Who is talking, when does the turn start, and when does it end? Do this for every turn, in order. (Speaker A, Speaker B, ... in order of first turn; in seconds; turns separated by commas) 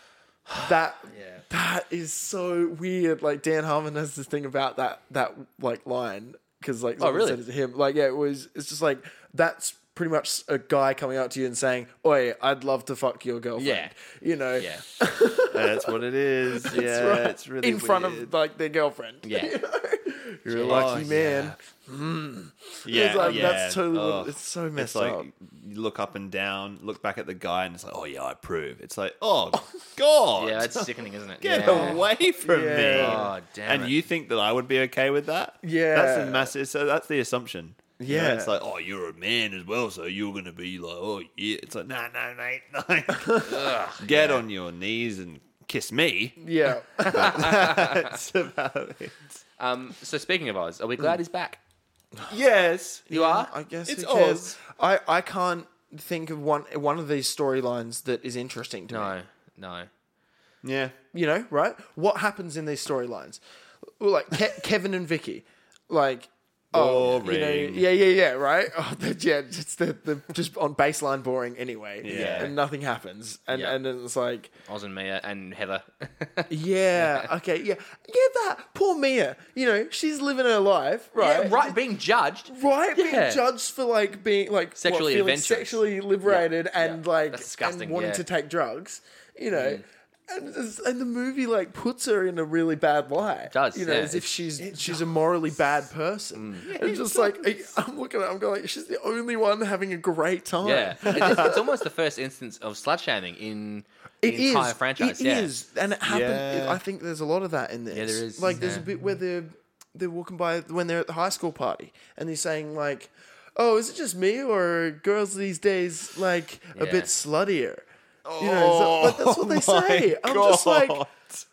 Speaker A: 0.5-25.3, Speaker B: 1.1-1.4, Speaker B: 7.0-7.4, Speaker B: 13.6-13.9, Speaker B: 14.5-14.8, Speaker C: 15.5-18.3, Speaker B: 19.2-19.6, Speaker B: 20.5-21.1, Speaker C: 20.6-21.6, Speaker C: 22.8-30.9, Speaker B: 23.1-23.6, Speaker B: 30.4-32.0, Speaker C: 31.4-46.4, Speaker A: 31.6-33.3, Speaker B: 32.9-33.9, Speaker A: 35.6-36.5, Speaker A: 38.0-38.5, Speaker B: 43.4-44.4, Speaker A: 46.4-47.6, Speaker C: 47.0-49.4, Speaker B: 47.0-48.1, Speaker B: 49.6-51.6, Speaker C: 52.3-53.1, Speaker A: 53.1-59.1, Speaker B: 53.1-53.5, Speaker C: 53.9-54.6, Speaker B: 58.9-59.9, Speaker C: 60.6-61.0, Speaker A: 61.1-63.4, Speaker A: 64.0-74.5, Speaker C: 66.7-67.8, Speaker C: 72.0-72.5, Speaker B: 72.1-72.5, Speaker B: 73.5-73.8, Speaker B: 74.7-77.3, Speaker A: 76.5-81.8, Speaker B: 81.2-83.4, Speaker A: 82.5-101.8, Speaker B: 84.8-88.2, Speaker B: 89.5-89.8, Speaker B: 93.5-94.5, Speaker C: 94.6-95.2, Speaker B: 96.3-96.7, Speaker C: 96.6-97.7, Speaker B: 100.6-105.5, Speaker C: 101.1-101.5, Speaker A: 104.2-117.8, Speaker C: 106.0-106.8, Speaker B: 107.9-108.9, Speaker B: 116.8-117.1, Speaker C: 118.2-121.4, Speaker A: 118.4-121.0